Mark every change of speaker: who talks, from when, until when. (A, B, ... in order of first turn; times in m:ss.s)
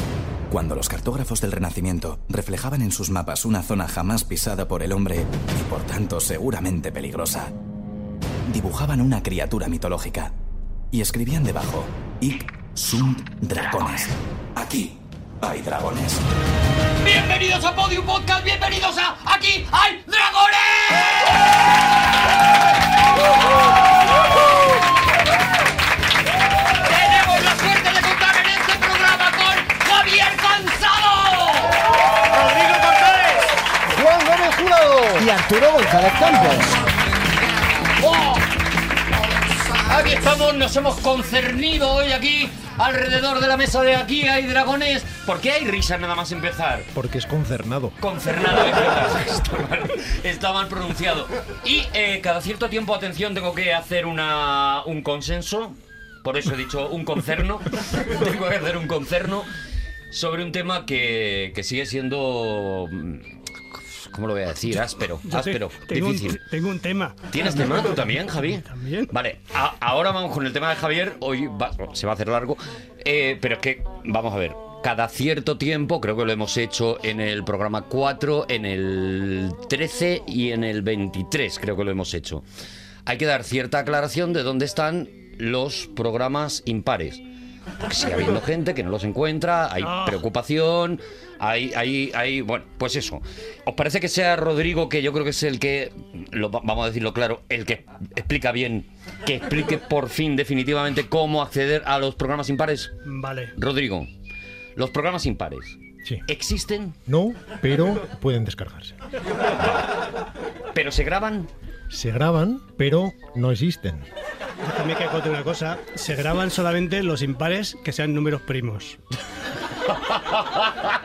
0:00.5-0:07.5 A
0:08.5-0:10.3 A
0:10.9-0:16.3 A
0:17.0-0:21.2 B
0:26.8-0:31.7 B
0:32.3-0:33.5 C
0:34.0-0:36.8 D
0:38.0-0:38.5 B
0:39.8-0:46.9 B
0:46.9-0:48.0 E
0:48.0-0:59.5 B
1:00.1-1:03.3 B
1:04.0-1:06.4 B
1:05.3-1:09.1 C
1:07.3-1:22.4 B
1:23.1-1:27.2 B
1:27.8-1:42.9 B
1:29.8-1:30.2 C
1:43.1-1:43.5 C
1:43.6-1:44.1 B
1:44.8-1:47.0 B
1:47.1-1:49.0 E
1:49.6-1:49.9 B
1:50.7-1:51.5 B
1:51.9-1:54.1 E
1:54.6-1:59.0 C
2:00.1-2:00.6 B